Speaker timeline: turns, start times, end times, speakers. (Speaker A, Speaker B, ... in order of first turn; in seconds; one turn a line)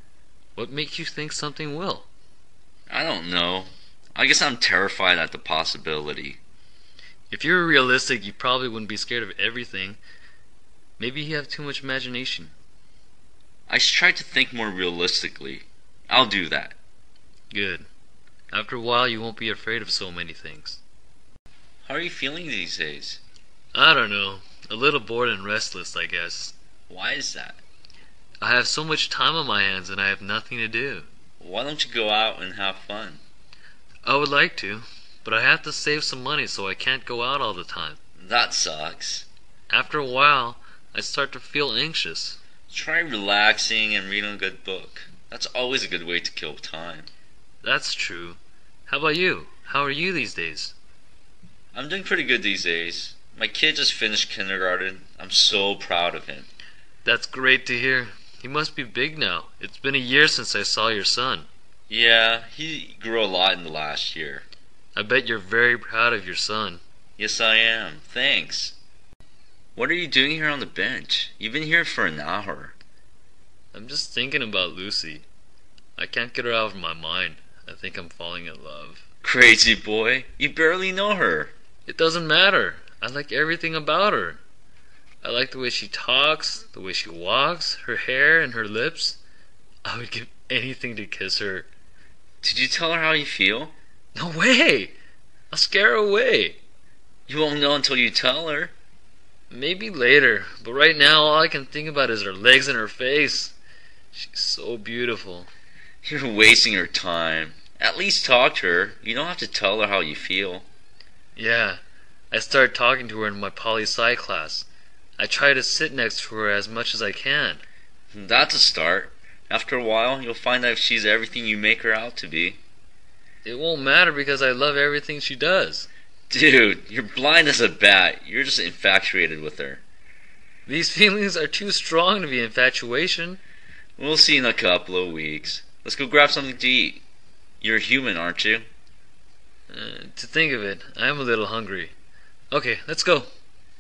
Speaker A: 0.6-2.1
Speaker B: 2.9-6.4
Speaker A: 7.3-10.0
Speaker A: 11.0-12.5
Speaker B: 13.7-16.8
Speaker A: 17.5-17.9
Speaker A: 18.5-20.8
Speaker B: 21.8-23.2
Speaker A: 23.7-26.6
Speaker B: 26.9-27.6
Speaker A: 28.4-31.1
Speaker B: 31.4-33.2
Speaker A: 34.0-38.0
Speaker B: 38.2-39.3
Speaker A: 39.7-42.4
Speaker B: 42.7-47.1
Speaker A: 47.6-50.7
Speaker B: 51.7-56.5
Speaker A: 57.0-61.5
Speaker B: 61.9-64.5
Speaker A: 65.0-66.8
Speaker B: 67.2-68.8
Speaker B: 69.8-72.8
Speaker A: 73.7-75.2
Speaker A: 76.0-79.0
Speaker B: 79.2-81.5
Speaker A: 81.9-84.4
Speaker A: 85.2-89.2
Speaker A: 89.8-91.7
Speaker B: 92.4-93.7
Speaker A: 94.2-95.0
Speaker A: 95.5-96.6
Speaker B: 97.3-98.7
Speaker A: 99.5-103.5
Speaker A: 104.1-105.5
Speaker B: 106.0-110.7
Speaker A: 111.4-114.7
Speaker A: 115.2-117.6
Speaker B: 118.1-122.6
Speaker A: 123.4-125.9
Speaker B: 126.3-129.8
Speaker A: 130.7-133.4
Speaker B: 134.0-137.0
Speaker B: 137.6-138.7
Speaker A: 139.7-141.9
Speaker A: 142.5-143.3